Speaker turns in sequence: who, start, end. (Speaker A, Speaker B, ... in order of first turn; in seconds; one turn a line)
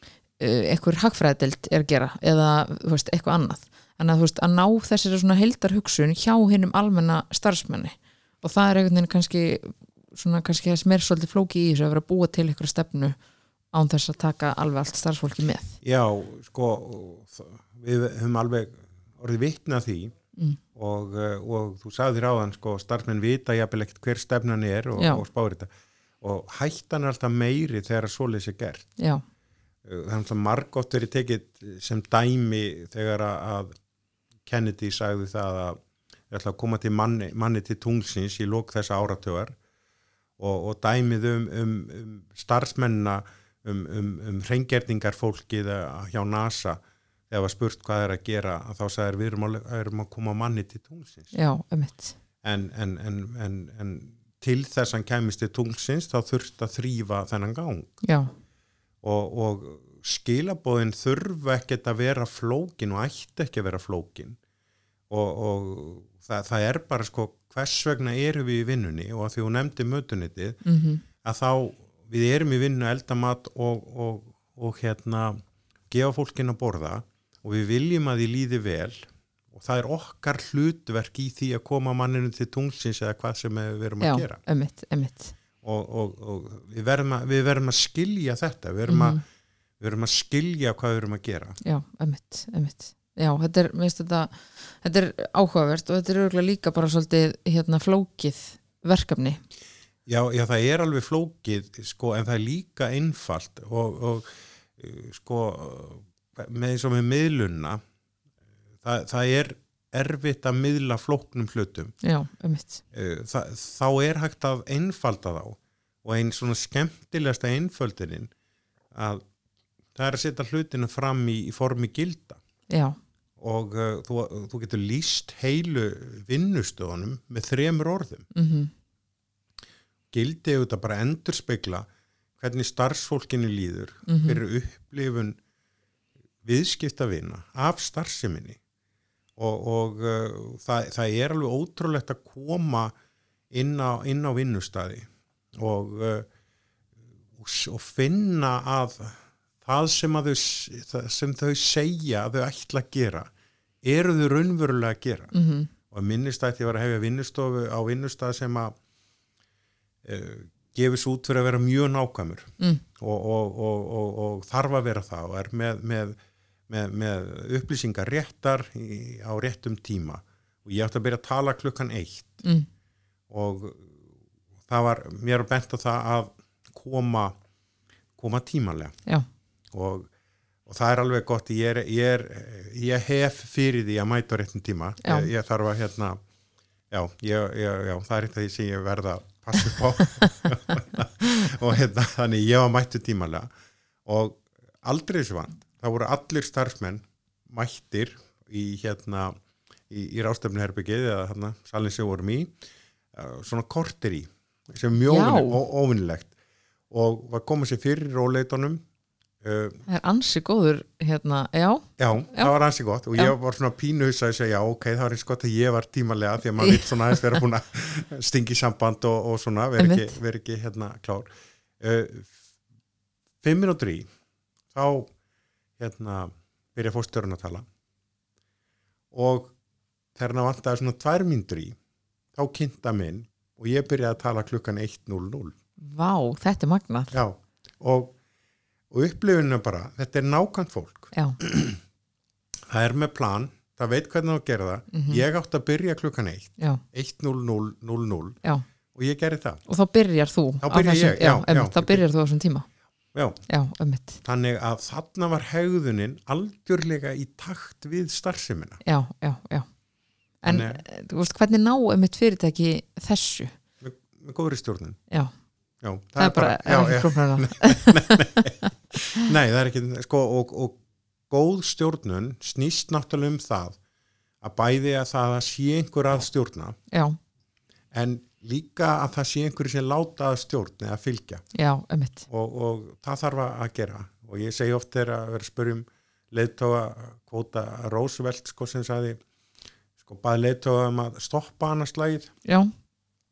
Speaker A: 0.4-13.2
Speaker A: 13.7-15.8
Speaker B: 15.8-20.1
Speaker B: 20.8-25.7
Speaker A: 25.0-25.2
Speaker B: 26.2-28.9
Speaker B: 29.9-33.7
Speaker B: 34.5-35.8
Speaker B: 36.3-39.6
Speaker B: 40.4-46.8
Speaker B: 47.3-51.3
Speaker A: 51.3-52.1
Speaker B: 52.4-57.9
Speaker A: 58.0-58.3
Speaker B: 59.0-64.4
Speaker B: 65.1-70.6
Speaker A: 70.6-71.0
Speaker B: 71.2-75.4
Speaker B: 75.9-84.4
Speaker A: 84.0-85.3
Speaker B: 85.6-89.2
Speaker A: 88.9-89.2
Speaker B: 89.8-91.6
Speaker A: 91.6-99.4
Speaker B: 100.1-107.8
Speaker B: 108.8-112.0
Speaker A: 112.0-112.8
Speaker B: 112.9-118.3
Speaker B: 118.9-119.2
Speaker B: 120.0-122.4
Speaker A: 122.7-123.0
Speaker B: 123.4-128.3
Speaker A: 128.3-128.7
Speaker B: 130.1-131.9
Speaker B: 132.4-135.4
Speaker A: 134.1-134.4
Speaker B: 136.4-138.6
Speaker B: 139.4-142.9
Speaker B: 143.5-145.1
Speaker B: 145.6-146.3
Speaker B: 147.4-153.3
Speaker B: 153.8-155.3
Speaker A: 155.3-155.7
Speaker B: 155.9-158.8
Speaker B: 160.0-166.2
Speaker B: 166.7-172.4
Speaker B: 173.3-174.0
Speaker B: 174.7-177.3
Speaker B: 178.2-179.0
Speaker B: 179.7-180.1
Speaker B: 180.7-186.2
Speaker A: 185.0-185.3
Speaker B: 186.9-193.5
Speaker B: 194.1-199.3
Speaker B: 199.9-202.5
Speaker B: 203.1-206.3
Speaker A: 205.1-205.6
Speaker B: 206.9-208.8
Speaker B: 209.4-209.8
Speaker A: 209.9-212.5
Speaker B: 212.0-221.3
Speaker A: 216.6-217.2
Speaker A: 219.8-220.2
Speaker B: 221.8-222.3
Speaker B: 223.4-224.1
Speaker B: 224.7-225.1
Speaker B: 225.8-227.6
Speaker B: 229.1-229.6
Speaker B: 230.1-231.8
Speaker B: 232.4-235.6
Speaker A: 235.8-237.1
Speaker B: 237.1-238.1
Speaker B: 238.9-241.8
Speaker A: 241.1-241.4
Speaker B: 242.7-248.4
Speaker A: 244.9-245.2
Speaker B: 248.9-249.6
Speaker A: 249.7-252.7
Speaker B: 250.6-252.0
Speaker B: 253.1-253.4
Speaker A: 253.5-254.2
Speaker B: 254.2-258.8
Speaker A: 258.8-259.7
Speaker A: 260.4-263.5
Speaker B: 260.5-260.8
Speaker B: 263.8-265.0
Speaker B: 265.8-270.8
Speaker A: 266.2-268.5
Speaker B: 271.3-273.8
Speaker B: 274.4-276.8
Speaker A: 276.9-277.2
Speaker B: 277.9-281.5
Speaker A: 281.5-282.3
Speaker B: 282.3-289.2
Speaker B: 290.0-292.3
Speaker A: 292.5-292.7